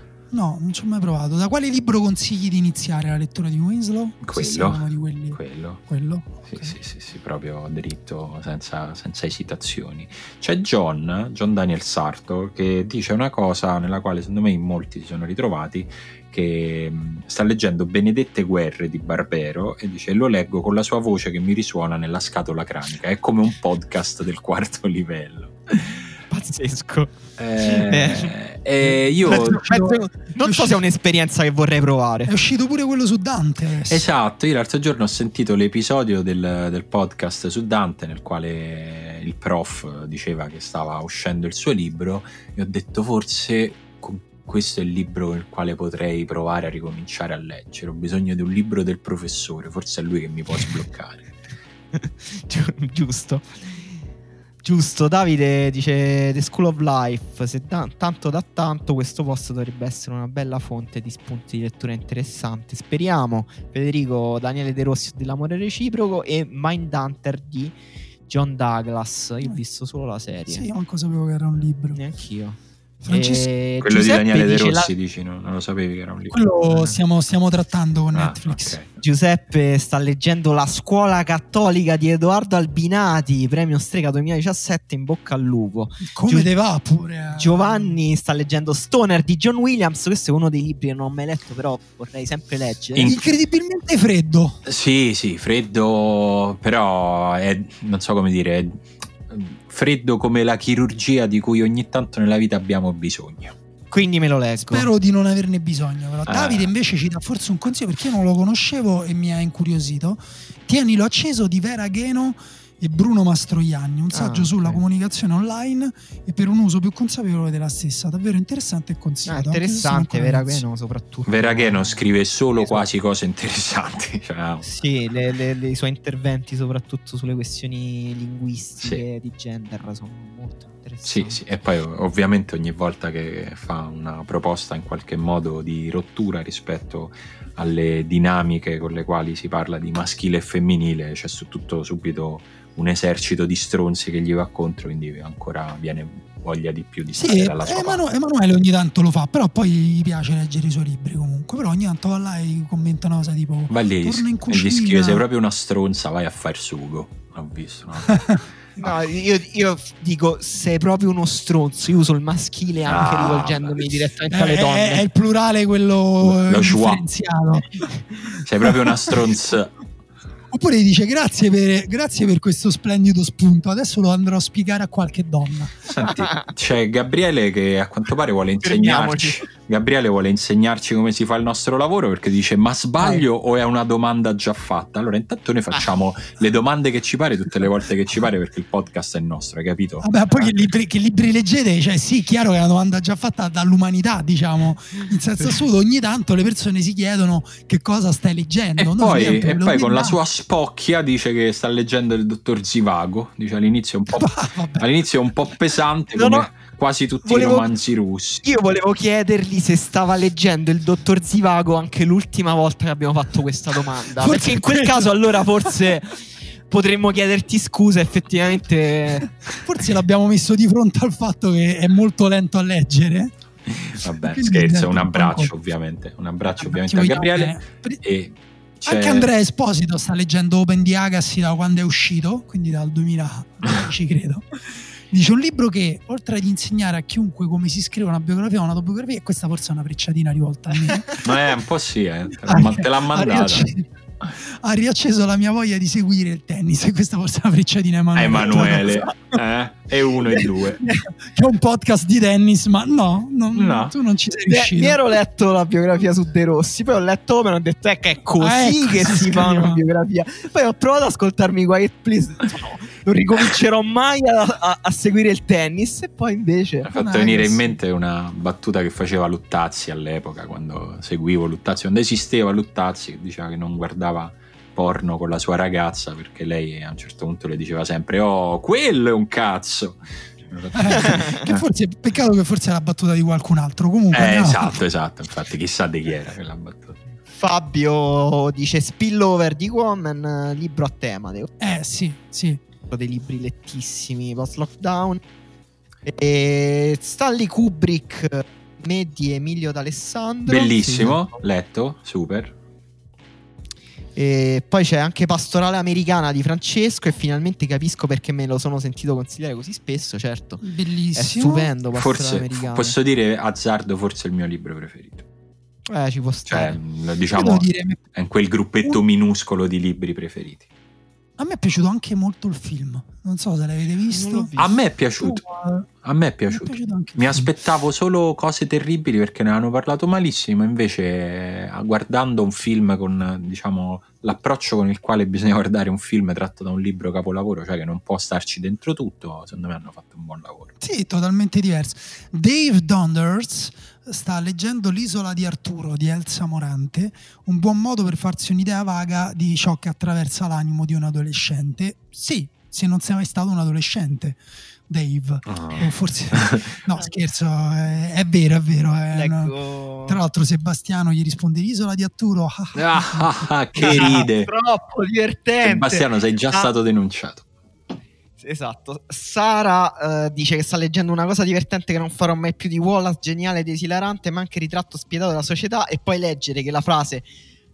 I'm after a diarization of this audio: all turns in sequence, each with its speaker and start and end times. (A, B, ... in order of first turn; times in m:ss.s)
0:00.3-0:06.8 A
0:04.2-0:05.8 B
0:06.4-0:26.1 B
0:26.3-0:28.4 C
0:27.4-0:29.6 B
0:29.2-0:32.3 C
0:29.2-0:30.8 A
0:32.3-0:34.1 A
0:33.9-0:51.3 B
0:51.9-0:54.0 C
0:54.6-1:10.7 C
1:10.5-1:12.0 A
1:11.9-1:12.6 C
1:13.0-1:13.5 A
1:13.1-1:14.9 C
1:13.8-1:16.4 B
1:16.3-1:18.8 A
1:18.1-1:18.9 B
1:19.0-1:26.5 C
1:26.0-1:28.0 A
1:27.3-1:33.1 C
1:32.9-1:33.2 B
1:33.0-1:34.6 A
1:34.6-1:43.6 B
1:43.9-1:44.9 C
1:44.6-2:00.6 A
1:46.3-1:46.7 B
1:54.1-1:54.8 C
1:59.3-2:02.9 C
2:01.3-2:04.7 B
2:04.6-2:11.4 C
2:08.8-2:09.0 B
2:11.0-2:28.1 B
2:27.2-2:35.2 A
2:33.7-2:39.0 B
2:38.1-2:38.4 A
2:38.8-2:45.0 C
2:42.9-2:43.9 B
2:44.3-2:49.2 A
2:46.2-2:47.0 B
2:48.4-2:49.8 B
2:50.5-2:55.9 A
2:55.9-3:10.5 B
2:58.6-2:59.5 C
3:10.0-3:20.2 A
3:18.8-3:28.5 B
3:24.1-3:24.9 A
3:26.2-3:26.5 C
3:27.2-3:27.7 C
3:28.4-3:39.3 C
3:34.2-3:35.1 A
3:39.5-3:43.3 A
3:43.7-3:49.3 B
3:44.0-3:45.5 A
3:46.6-3:48.0 A
3:48.9-4:01.2 A
4:01.2-4:03.7 B
4:02.4-4:09.0 A
4:08.2-4:10.8 B
4:10.4-4:15.0 A
4:13.5-4:13.9 B
4:14.5-4:26.9 C
4:18.4-4:19.8 A
4:26.9-4:41.6 B
4:26.9-4:27.8 A
4:40.7-4:44.7 A
4:41.0-4:41.4 C
4:44.1-4:47.0 B
4:47.3-4:51.5 C
4:51.6-4:52.6 A
4:52.9-4:55.2 C
4:56.1-5:01.3 C
5:00.5-5:02.6 B
5:04.2-5:10.6 C
5:10.6-5:11.7 A
5:11.2-5:13.0 C
5:11.9-5:15.2 B
5:15.9-5:16.8 C
5:16.5-5:20.7 B
5:17.3-5:18.0 A
5:21.4-5:24.5 A
5:24.1-5:24.7 C
5:24.6-5:25.4 B
5:25.2-5:25.9 A
5:26.0-5:40.8 B
5:26.5-5:27.6 A
5:40.8-5:59.5 A
5:55.5-5:56.7 B
5:59.1-6:00.2 C
6:00.1-6:04.3 A
6:02.8-6:04.5 B
6:03.8-6:06.7 C
6:05.6-6:07.5 B
6:08.4-6:17.3 C